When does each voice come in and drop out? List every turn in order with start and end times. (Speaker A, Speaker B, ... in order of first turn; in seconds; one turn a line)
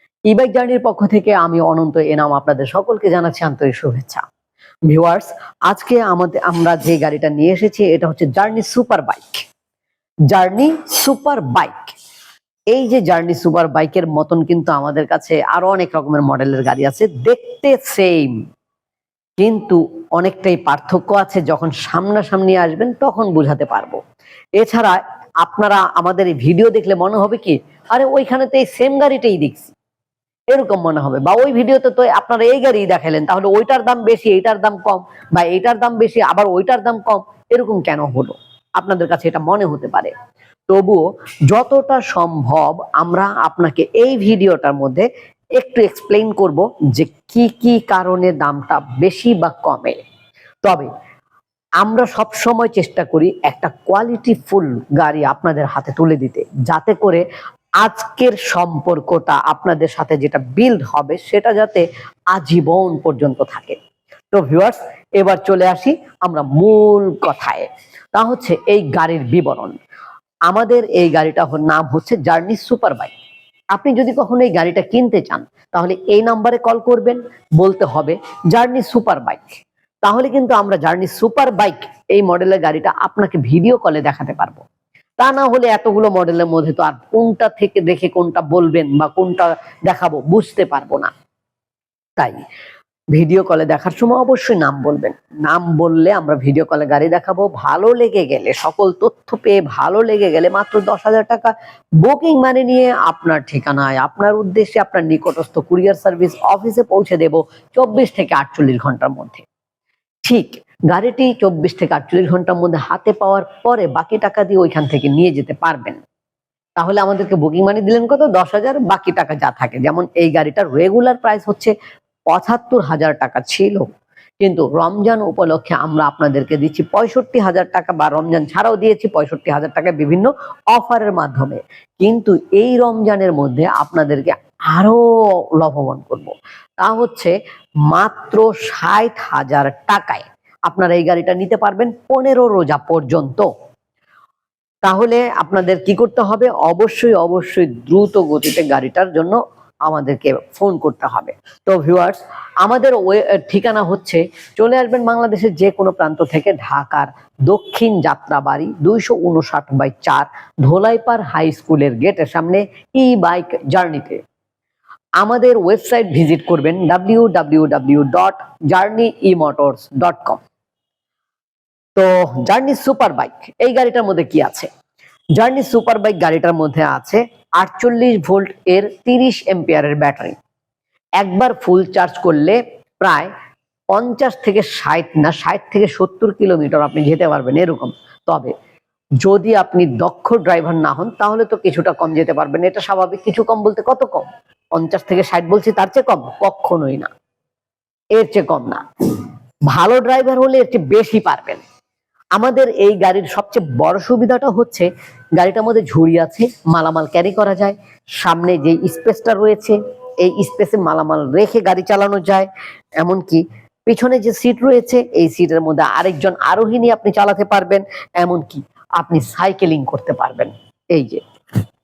Speaker A: 0.3-4.2
Speaker A: 4.9-9.4
Speaker A: 10.3-11.9
Speaker A: 12.7-18.3
Speaker A: 19.4-24.0
Speaker A: 24.6-29.7
Speaker A: 30.5-40.1
Speaker A: 40.7-45.1
Speaker A: 45.6-50.0
Speaker A: 50.6-50.9
Speaker A: 51.8-57.2
Speaker A: 57.8-63.8
Speaker A: 64.3-69.8
Speaker A: 70.5-73.1
Speaker A: 73.7-84.6
Speaker A: 85.2-91.1
Speaker A: 93.1-109.4
Speaker A: 110.2-116.0
Speaker A: 116.8-121.7
Speaker A: 122.3-123.9
Speaker A: 124.4-135.0
Speaker A: 135.6-137.3
Speaker A: 137.9-143.5
Speaker A: 144.8-164.2
Speaker A: 165.2-170.4
Speaker A: 171.9-174.7
Speaker A: 175.4-180.4
Speaker A: 181.2-183.3
Speaker A: 183.9-188.5
Speaker A: 189.2-197.1
Speaker A: 198.2-198.8
Speaker A: 199.7-201.6
Speaker A: 202.3-212.5
Speaker A: 213.0-221.2